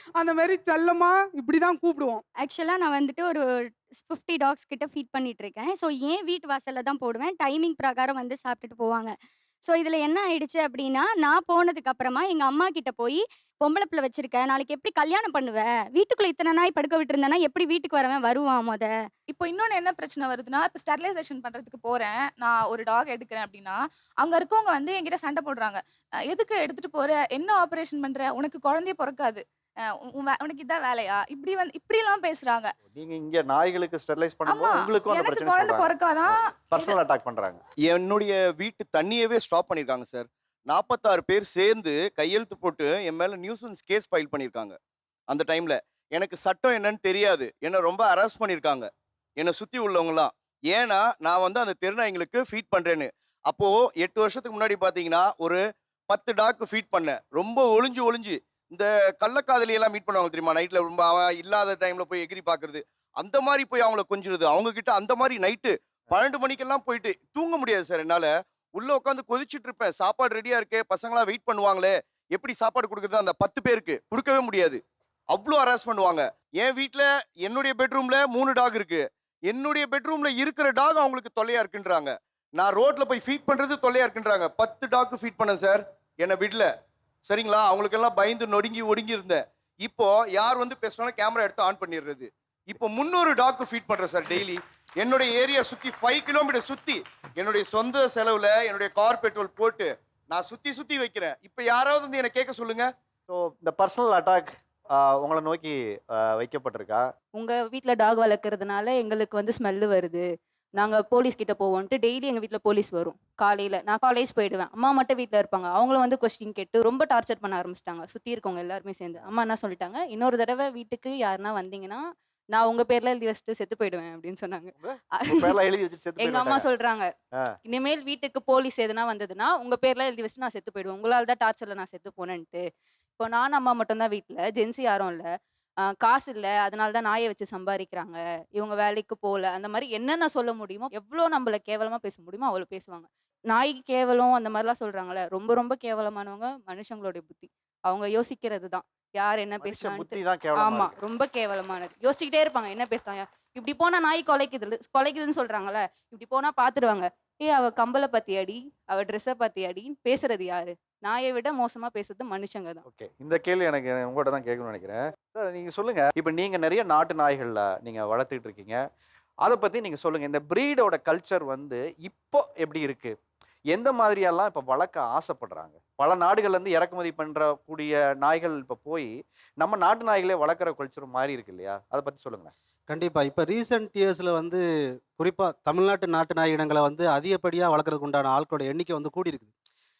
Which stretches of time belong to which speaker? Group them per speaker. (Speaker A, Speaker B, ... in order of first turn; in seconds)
Speaker A: 0.1-2.2
Speaker B: 2.4-9.1, 9.6-18.9
Speaker C: 19.5-20.3, 22.9-23.4, 26.3-27.5, 28.1-29.4, 30.3-30.7, 32.4-32.7, 34.5-36.9
Speaker D: 32.9-37.6, 103.3-107.0, 124.8-126.7, 149.6-150.9, 162.9-168.8, 169.4-173.1, 173.7-182.5
Speaker E: 37.9-44.8, 45.3-86.7, 87.2-102.9
Speaker F: 107.3-110.2, 110.8-125.5, 126.2-127.1, 127.7-132.6, 133.2-135.3, 136.0-162.8
Speaker G: 182.9-189.5